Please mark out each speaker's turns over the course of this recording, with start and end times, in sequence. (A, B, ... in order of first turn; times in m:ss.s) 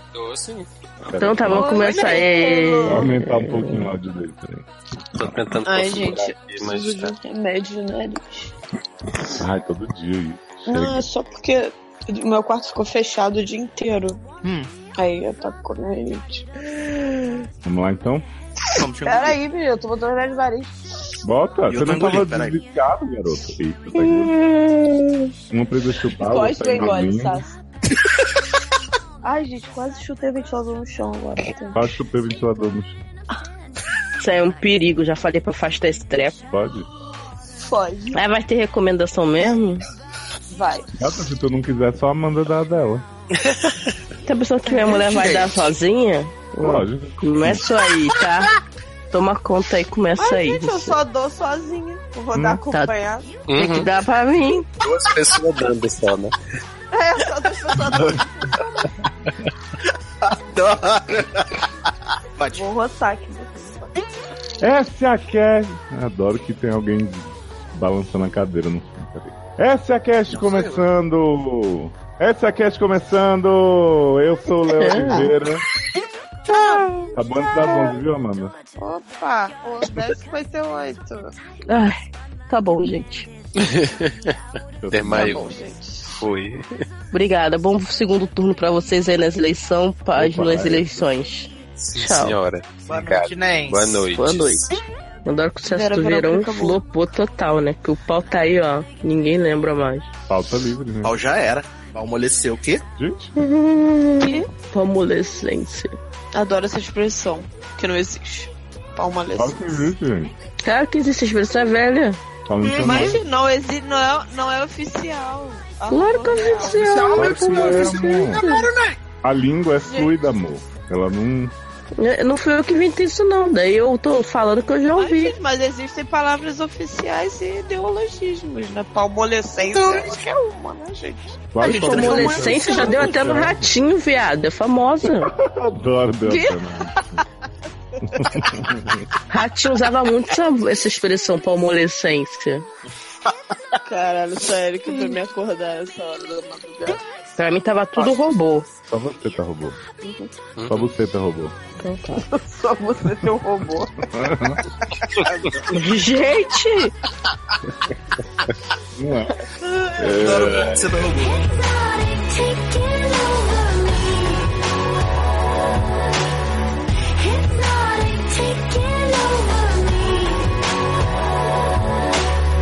0:00.1-0:00.7 A
0:01.0-0:01.7 B
0:01.2-0:03.9 C
0:01.5-0:03.2 D
0:01.7-0:02.3 E
0:02.9-0:05.4 B
0:05.1-0:07.1 A
0:05.6-0:08.5 D
0:09.4-0:11.1 B
0:10.7-0:14.2 D
0:14.4-0:14.7 E
0:15.0-0:17.4 D
0:17.6-0:18.2 B
0:18.7-0:19.4 E
0:19.0-0:21.2 D
0:21.2-0:24.3 B
0:21.7-0:22.6 E
0:24.0-0:25.3 C
0:25.5-0:27.4 B
0:26.2-0:27.6 D
0:29.2-0:31.8 D
0:31.7-0:33.0 B
0:34.2-0:36.4 C
0:36.4-0:36.9 B
0:37.6-0:38.2 D
0:38.1-0:39.8 C
0:40.5-0:40.9 D
0:41.0-0:43.0 B
0:43.4-0:43.8 A
0:44.2-0:48.5 C
0:44.6-0:45.1 D
0:44.9-0:45.7 E
0:46.6-0:47.6 B
0:49.1-0:51.0 C
0:50.2-0:53.3 D
0:52.3-0:52.6 B
0:53.5-0:53.9 A
0:53.6-0:54.7 C
0:54.8-0:56.3 A
0:56.9-0:59.0 D
0:57.9-0:58.2 A
1:00.2-1:01.7 E
1:02.4-1:02.7 E
1:02.5-1:03.9 D
1:04.6-1:15.6 B
1:14.8-1:15.1 C
1:14.9-1:15.3 D
1:16.5-1:18.0 D
1:17.1-1:18.5 B
1:18.8-1:21.3 D
1:21.7-1:23.3 C
1:23.6-1:24.4 A
1:24.8-1:25.4 B
1:24.9-1:25.5 A
1:25.1-1:26.2 D
1:26.2-1:26.8 A
1:27.1-1:32.4 C
1:30.1-1:31.1 B
1:31.8-1:34.8 A
1:32.8-1:34.1 E
1:34.1-1:40.1 C
1:35.6-1:36.8 D
1:40.3-1:41.1 B
1:41.0-1:42.8 E
1:43.0-1:43.4 B
1:43.4-1:45.9 C
1:44.2-1:44.5 D
1:46.3-1:49.8 D
1:49.4-1:50.3 B
1:50.6-1:52.2 C
1:52.5-1:53.2 B
1:52.6-1:53.2 E
1:52.7-1:58.2 D
1:55.9-1:58.7 C
1:56.6-1:59.0 E
1:57.2-1:58.5 B
1:59.2-2:01.5 B
2:02.0-2:05.3 C
2:05.0-2:13.2 D
2:09.6-2:10.2 E
2:11.5-2:13.7 B
2:11.6-2:15.3 C
2:15.0-2:17.0 B
2:16.2-2:17.2 D
2:18.0-2:18.4 D
2:18.1-2:19.0 B
2:19.3-2:22.6 C
2:23.2-2:23.8 E
2:23.8-2:27.0 D
2:27.4-2:28.7 C
2:28.9-2:29.8 B
2:30.0-2:30.3 D
2:30.6-2:30.8 A
2:30.7-2:31.6 B
2:31.8-2:32.2 C
2:32.2-2:34.1 D
2:34.1-2:34.6 B
2:34.7-2:35.8 D
2:35.7-2:36.9 C
2:39.0-2:39.4 B
2:39.7-2:41.4 E
2:40.0-2:40.8 B
2:41.1-2:46.0 F
2:47.2-2:52.1 F